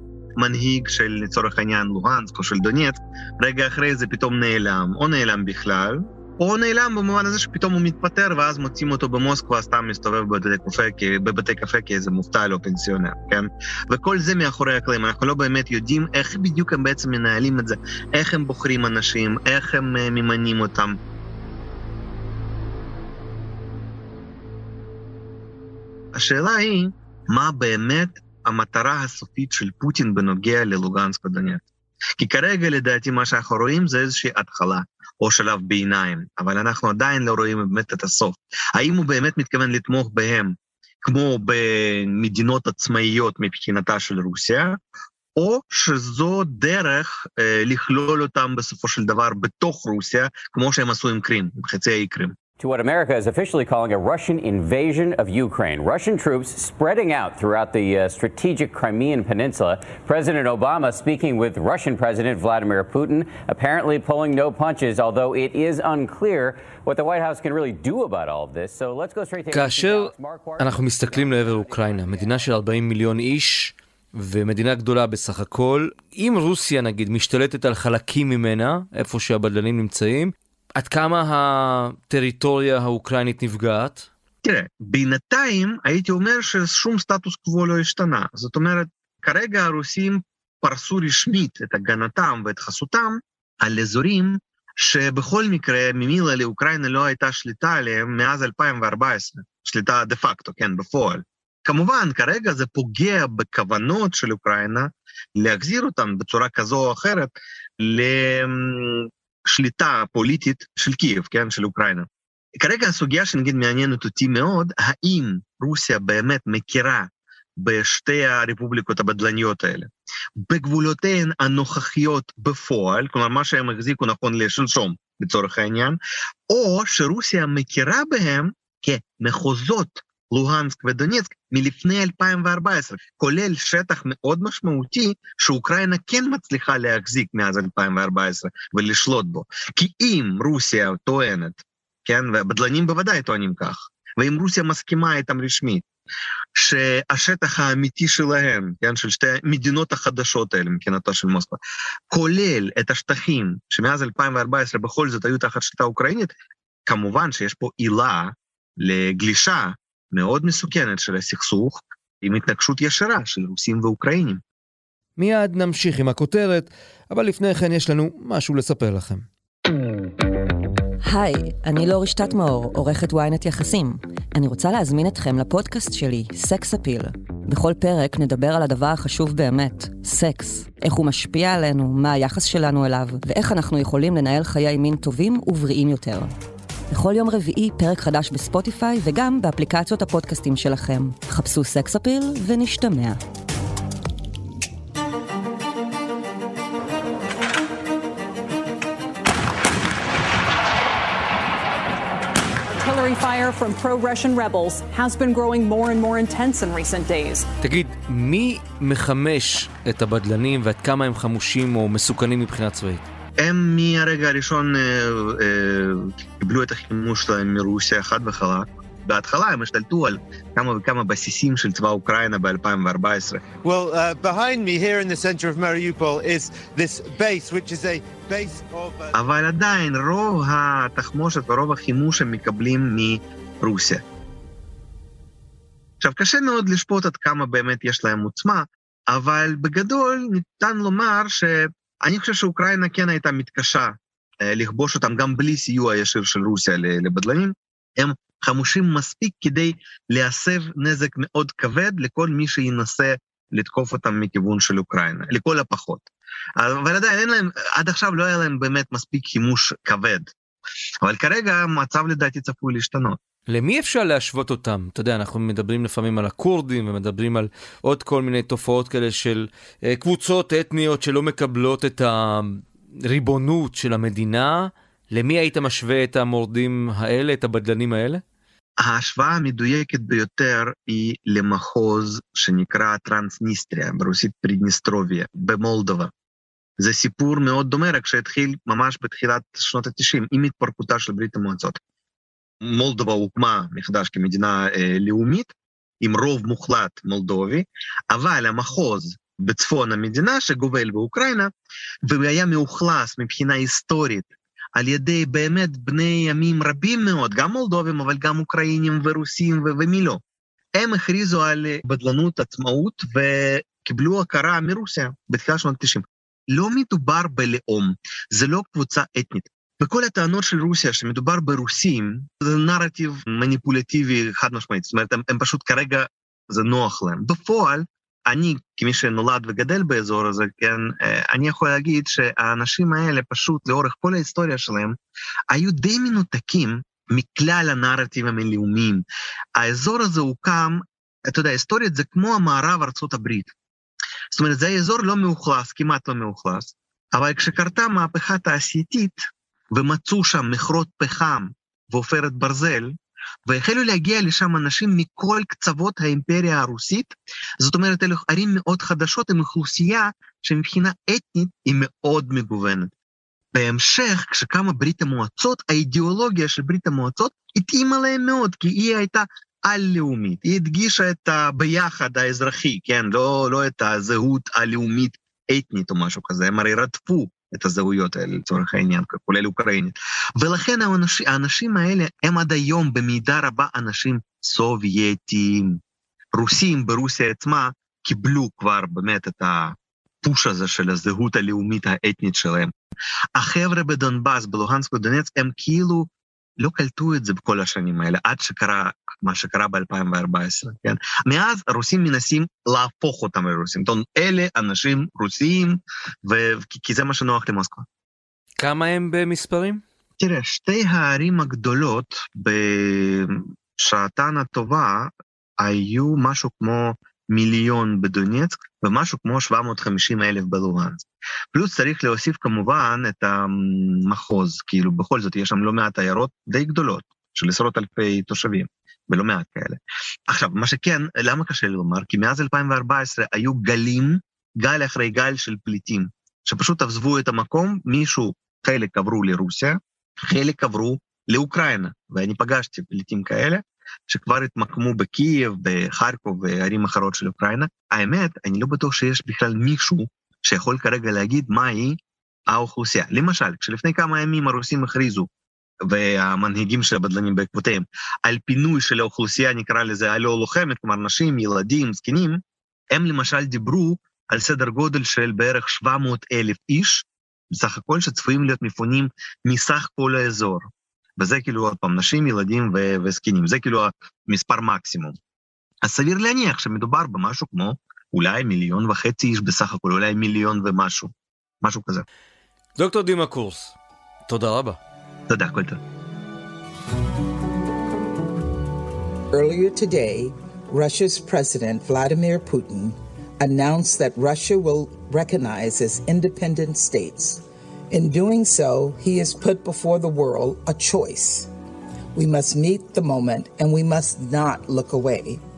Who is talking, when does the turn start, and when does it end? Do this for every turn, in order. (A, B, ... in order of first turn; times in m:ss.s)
0:00.4-0:21.0 A
0:26.1-0:31.6 A
0:32.2-0:44.8 A
0:45.4-0:52.4 A
0:52.6-1:12.0 B
1:09.5-1:24.1 C
1:11.1-1:12.1 D
1:24.4-1:52.1 A
1:52.6-1:59.9 A
2:00.4-2:25.8 A
2:26.6-2:31.6 A
2:32.1-2:36.3 A
2:36.9-2:44.4 A
2:45.2-2:49.3 C
2:51.1-3:06.3 D
3:06.9-3:13.2 D
3:22.7-3:27.5 E
3:27.6-3:33.0 C
3:33.4-3:43.4 A
3:43.7-3:49.1 F
3:49.1-3:54.0 A
3:56.0-4:20.3 A
4:21.0-4:23.2 A
4:23.5-4:38.2 C
4:38.8-4:46.1 A
4:46.8-4:51.8 A
4:52.6-5:01.5 A
5:02.0-5:10.2 A
5:10.8-5:35.0 A
5:35.5-5:39.0 A
5:39.6-5:43.5 A
5:44.3-5:49.2 A
5:49.7-5:52.9 A
5:53.5-6:02.9 A
6:03.5-6:25.8 A
6:26.4-6:32.7 A
6:33.4-6:47.8 A
6:48.6-6:49.8 C
6:50.2-7:32.0 A
7:32.5-7:35.3 A
7:35.9-7:42.4 A
7:42.9-7:55.2 A
7:55.8-8:02.0 A
8:02.8-8:03.8 C
8:04.3-8:04.8 C
8:05.3-8:05.8 A
8:09.3-8:21.5 G
8:22.2-8:25.4 G